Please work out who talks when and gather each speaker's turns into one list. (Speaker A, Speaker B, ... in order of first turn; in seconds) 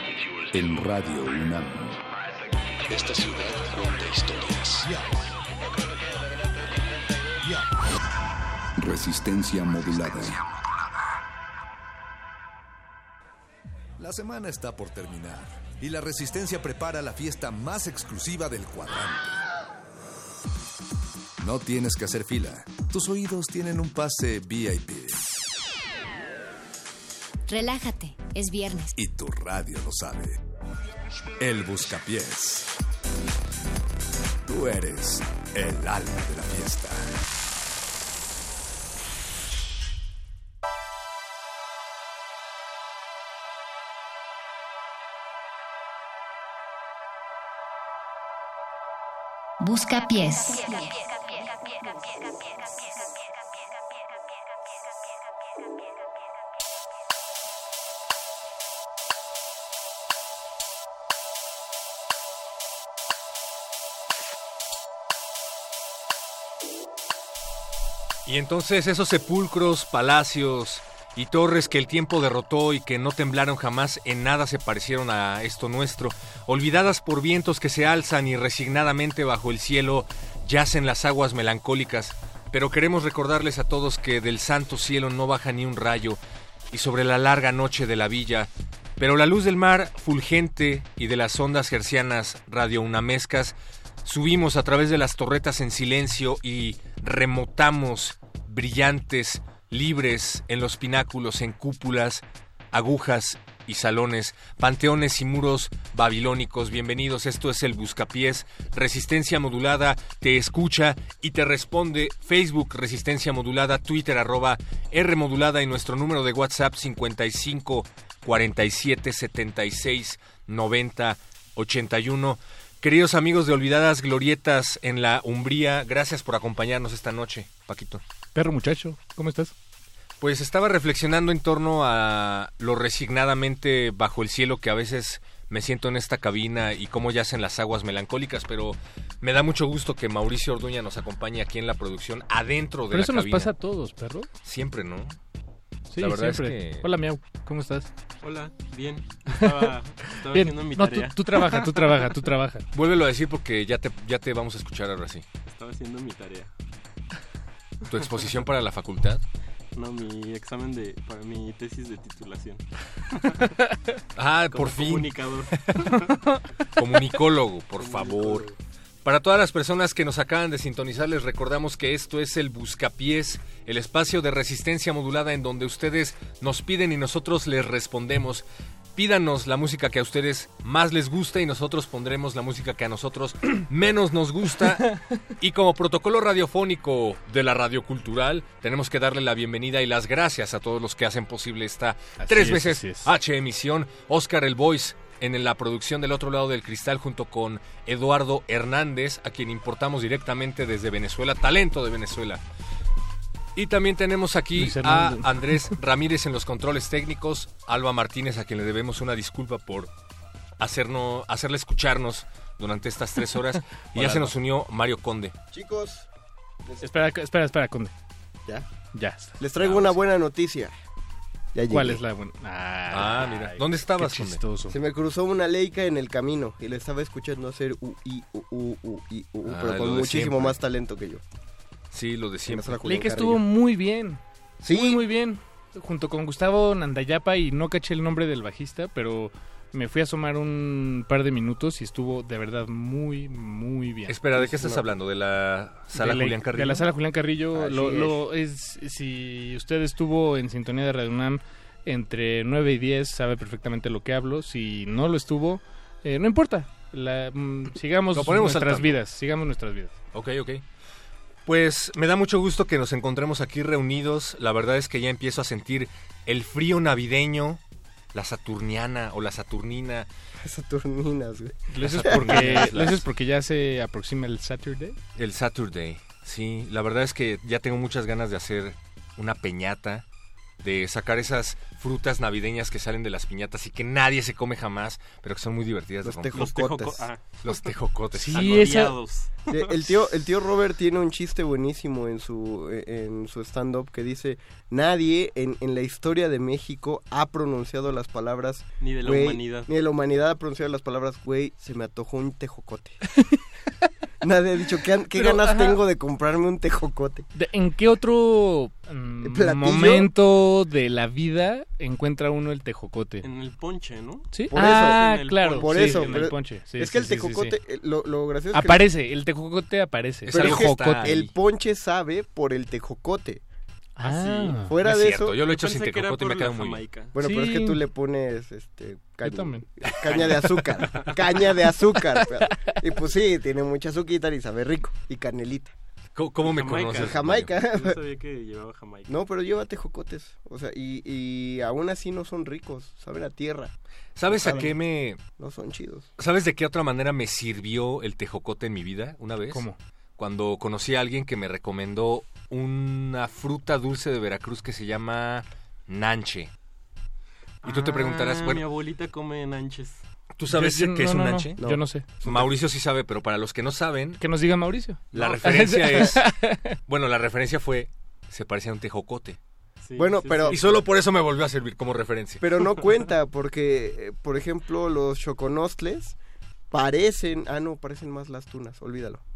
Speaker A: 0.5-2.0, 8.8-10.4, 14.0-19.4, 21.4-25.2, 29.0-30.4, 31.4-32.7, 34.5-37.1
Speaker B: 2.9-4.9
Speaker C: 27.5-28.9, 49.6-52.3
Speaker D: 68.2-86.2, 86.7-128.0, 130.2-143.5, 144.4-145.2, 146.0-146.9, 152.7-155.2, 157.8-159.2, 164.2-165.1, 166.8-168.5, 169.1-202.4, 203.6-209.9, 210.6-215.3, 219.6-220.0, 222.9-224.4, 229.5-230.6, 231.9-232.8, 244.1-246.9, 258.1-259.0, 260.1-260.6, 261.4-267.6, 268.1-270.1, 271.8-273.1, 275.1-280.0, 280.6-286.6, 287.4-288.8, 320.2-321.3, 324.8-326.8, 336.1-337.5, 344.2-345.2, 346.2-349.6, 350.2-356.5, 357.6-358.6, 360.4-361.6, 362.2-364.2, 365.1-366.2, 366.9-369.4, 370.5-372.4
Speaker E: 128.3-129.5, 142.9-144.3, 145.9-147.9, 150.3-152.7, 192.2-193.1, 204.6-205.7, 214.0-214.3, 216.8-217.9, 218.9-219.4, 221.7-224.8, 232.8-244.8, 245.9-259.9, 271.7-275.0, 288.2-288.9, 305.1-305.8, 307.3-313.2, 314.3-317.6, 318.5-321.1, 324.0-324.7, 327.2-327.8, 329.2-329.6, 349.5-349.8, 360.5-362.1, 364.2-366.8
Speaker F: 148.2-152.1, 155.4-156.5, 159.7-163.5, 164.5-166.2, 167.8-168.6, 286.3-287.7, 288.3-289.7, 298.8-299.7, 313.2-316.3, 324.1-324.6, 325.4-327.1, 330.1-331.1, 336.4-339.2, 357.6-360.0, 369.8-370.8
Speaker G: 215.5-216.1, 219.4-220.7, 221.5-222.0, 224.7-231.2, 232.5-233.4, 234.6-235.1, 247.5-248.2, 270.4-272.6, 286.0-287.1, 289.5-303.0, 304.2-307.3, 309.2-310.1, 314.5-318.8, 320.3-323.4, 324.6-325.4, 327.1-335.8, 336.9-338.0, 339.1-343.7, 344.3-344.8, 345.4-346.1, 361.6-362.5, 369.9-370.6, 372.4-376.1, 376.7-379.2